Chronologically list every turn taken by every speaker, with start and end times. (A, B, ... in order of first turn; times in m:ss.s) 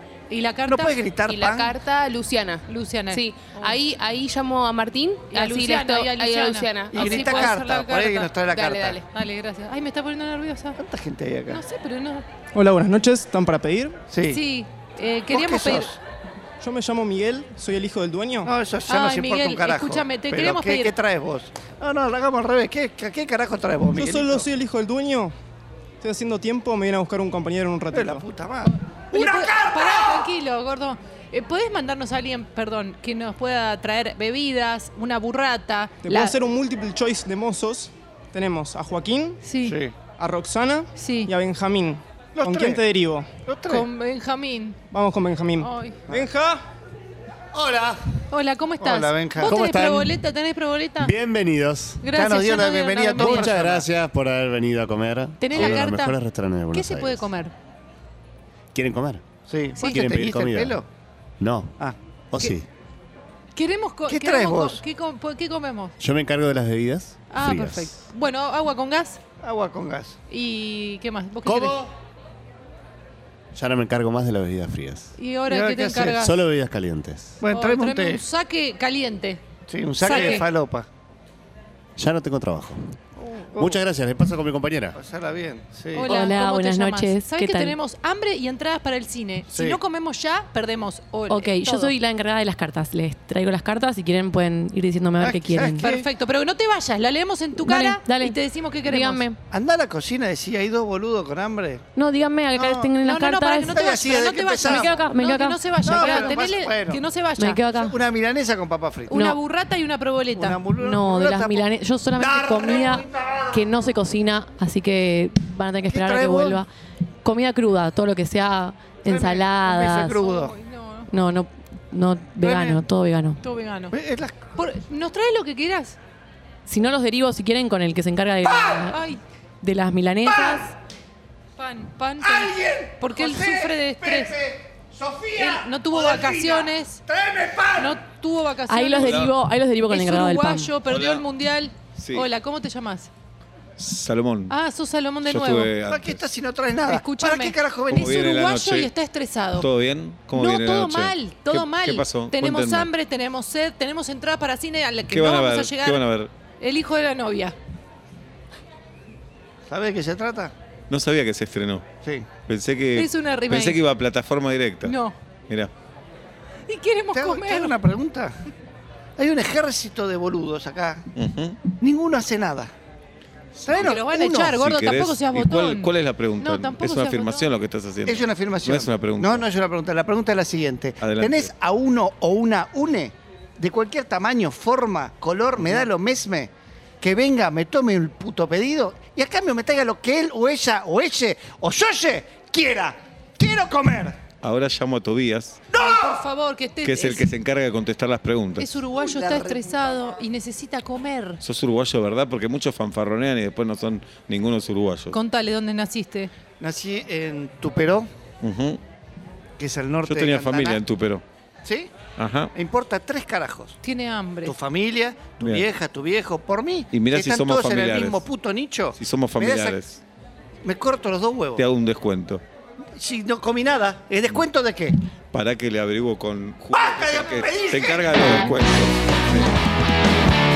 0:00.3-0:01.0 A
0:00.7-0:01.7 B
0:01.2-0:07.4 C
0:02.7-0:03.8 A
0:05.3-0:08.3 A
0:06.9-0:09.0 B
0:08.5-0:09.0 C
0:09.1-0:10.8 A
0:10.8-0:11.6 B
0:11.5-0:12.3 A
0:12.5-0:14.0 D
0:14.1-0:14.4 B
0:14.3-0:15.9 A
0:15.3-0:16.0 B
0:16.6-0:18.5 D
0:18.4-0:24.5 B
0:18.9-0:20.9 A
0:23.9-0:25.3 D
0:26.0-0:28.2 D
0:27.9-0:30.3 B
0:28.6-0:36.4 A
0:36.0-0:39.4 D
0:39.4-0:39.8 A
0:39.6-0:40.0 B
0:40.1-0:43.3 D
0:41.0-0:41.3 A
0:42.4-0:42.8 B
0:43.4-0:43.9 B
0:43.7-0:44.8 A
0:44.9-0:46.6 D
0:45.6-0:46.0 A
0:47.5-0:48.2 B
0:48.3-0:51.1 A
0:48.8-0:49.6 B
0:49.4-0:50.2 E
0:51.0-0:52.0 E
0:52.0-0:53.6 A
0:52.1-0:53.9 B
0:53.2-0:57.3 E
0:55.4-0:56.2 A
0:55.5-0:55.8 B
0:56.7-0:57.5 A
0:58.7-0:59.2 E
0:59.5-1:00.9 B
0:59.8-1:00.1 A
0:59.8-1:00.8 E
1:01.4-1:01.8 E
1:02.3-1:02.7 E
1:03.6-1:05.9 A
1:04.1-1:04.8 B
1:06.0-1:08.0 E
1:07.3-1:09.2 A
1:09.4-1:10.2 B
1:10.3-1:11.8 A
1:11.5-1:11.7 E
1:13.5-1:15.1 E
1:15.2-1:16.3 A
1:15.5-1:16.2 B
1:16.2-1:17.4 E
1:17.4-1:18.2 B
1:17.5-1:19.4 A
1:19.7-1:20.9 B
1:20.0-1:20.5 A
1:22.0-1:23.0 E
1:23.2-1:23.8 B
1:23.6-1:25.0 E
1:24.9-1:26.1 B
1:25.9-1:31.9 A
1:26.0-1:27.8 F
1:29.5-1:29.8 B
1:31.3-1:35.9 F
1:35.2-1:36.1 B
1:35.8-1:39.3 A
1:37.6-1:39.4 F
1:39.5-1:41.8 B
1:42.0-1:43.9 F
1:42.5-1:43.0 B
1:43.0-1:47.6 A
1:43.7-1:45.0 B
1:44.6-1:46.4 F
1:45.8-1:47.0 B
1:47.4-1:48.0 F
1:47.7-1:49.2 B
1:49.1-1:50.6 A
1:49.1-1:49.4 F
1:50.3-1:53.7 B
1:50.8-1:56.7 F
1:55.8-1:56.6 B
1:57.2-2:00.2 F
1:59.0-2:00.5 B
2:00.2-2:01.1 A
2:01.1-2:03.4 F
2:02.4-2:02.8 B
2:03.4-2:04.0 A
2:03.9-2:04.5 B
2:04.6-2:06.0 A
2:06.7-2:09.0 F
2:08.5-2:08.8 B
2:08.9-2:09.2 A
2:09.6-2:10.7 F
2:10.2-2:10.6 B
2:11.6-2:14.4 A
2:12.2-2:18.0 B
2:15.4-2:17.0 A
2:17.8-2:19.3 A
2:18.7-2:20.8 F
2:19.0-2:19.3 G
2:19.9-2:23.1 A
2:20.9-2:21.2 G
2:22.0-2:22.3 G
2:23.8-2:24.6 G
2:24.5-2:25.7 A
2:25.2-2:26.3 G
2:25.9-2:28.3 B
2:26.8-2:29.7 A
2:27.9-2:28.9 G
2:29.5-2:32.9 G
2:30.3-2:36.0 A
2:35.1-2:36.3 G
2:36.6-2:37.6 A
2:39.7-2:40.5 B
2:40.9-2:41.8 G
2:42.0-2:42.3 B
2:42.5-2:45.0 G
2:43.0-2:43.8 A
2:44.8-2:45.2 A
2:46.7-2:47.8 A
2:47.1-2:48.4 B
2:49.2-2:51.1 B
2:51.2-2:51.6 G
2:51.7-2:52.7 B
2:53.6-2:54.6 B
2:53.7-2:57.5 A
2:54.5-2:59.5 G
2:58.0-3:14.2 B
3:01.0-3:01.5 G
3:14.4-3:15.7 G
3:15.7-3:16.2 B
3:15.7-3:17.3 A
3:16.8-3:18.8 G
3:18.6-3:21.4 A
3:19.0-3:19.8 B
3:21.4-3:25.2 G
3:25.1-3:26.3 A
3:26.6-3:28.1 B
3:28.4-3:28.8 G
3:29.6-3:30.8 B
3:30.0-3:31.2 G
3:31.6-3:31.9 B
3:32.2-3:32.5 G
3:32.5-3:33.8 B
3:33.8-3:34.6 A
3:34.4-3:39.8 B
3:35.4-3:35.7 G
3:36.9-3:38.2 G
3:39.0-3:40.0 G
3:40.6-3:41.7 B
3:41.6-3:42.4 G
3:43.0-3:45.0 B
3:45.3-3:49.5 G
3:46.7-3:48.4 B